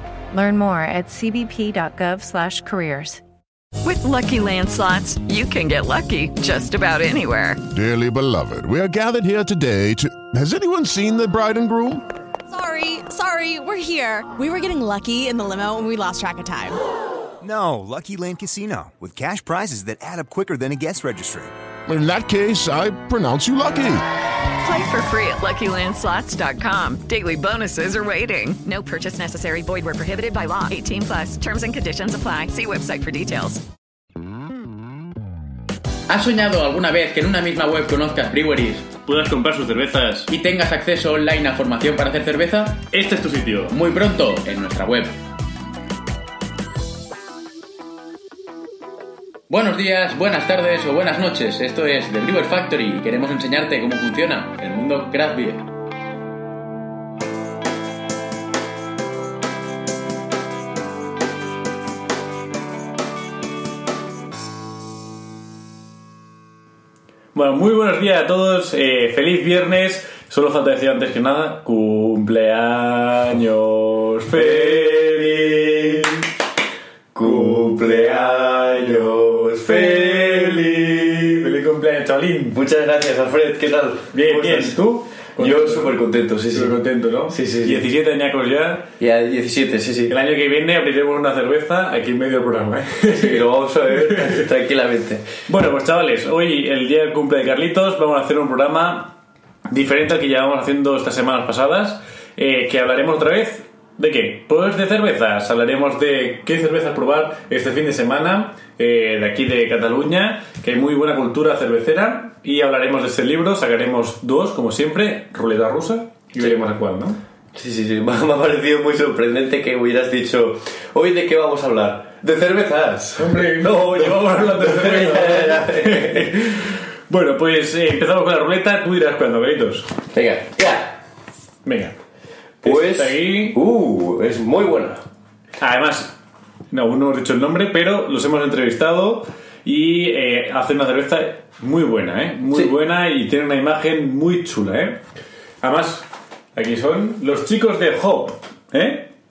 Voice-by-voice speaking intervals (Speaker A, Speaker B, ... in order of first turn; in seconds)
Speaker A: 0.3-3.2
Speaker B: 3.8-7.6, 24.6-33.6
Speaker C: 7.7-12.0, 21.9-24.0
Speaker D: 12.5-16.8
Speaker E: 17.4-21.5
Speaker F: 36.1-38.9, 40.3-42.8, 43.7-45.2, 49.5-55.7
Speaker G: 39.0-40.3, 42.9-43.7, 67.3-75.9, 77.2-77.7, 79.6-80.7, 81.4-82.6, 84.1-88.9, 90.1-94.5, 95.5-99.2, 99.7-117.2, 123.2-129.9, 131.7-131.9, 132.6-133.6, 135.6-136.1, 136.7-145.0, 145.6-149.1
Speaker H: 74.4-76.1, 77.1-81.5, 82.5-84.8, 85.4-86.8, 87.3-87.8, 89.0-90.1, 93.1-95.3, 117.5-126.3, 130.1-131.0, 132.6-135.0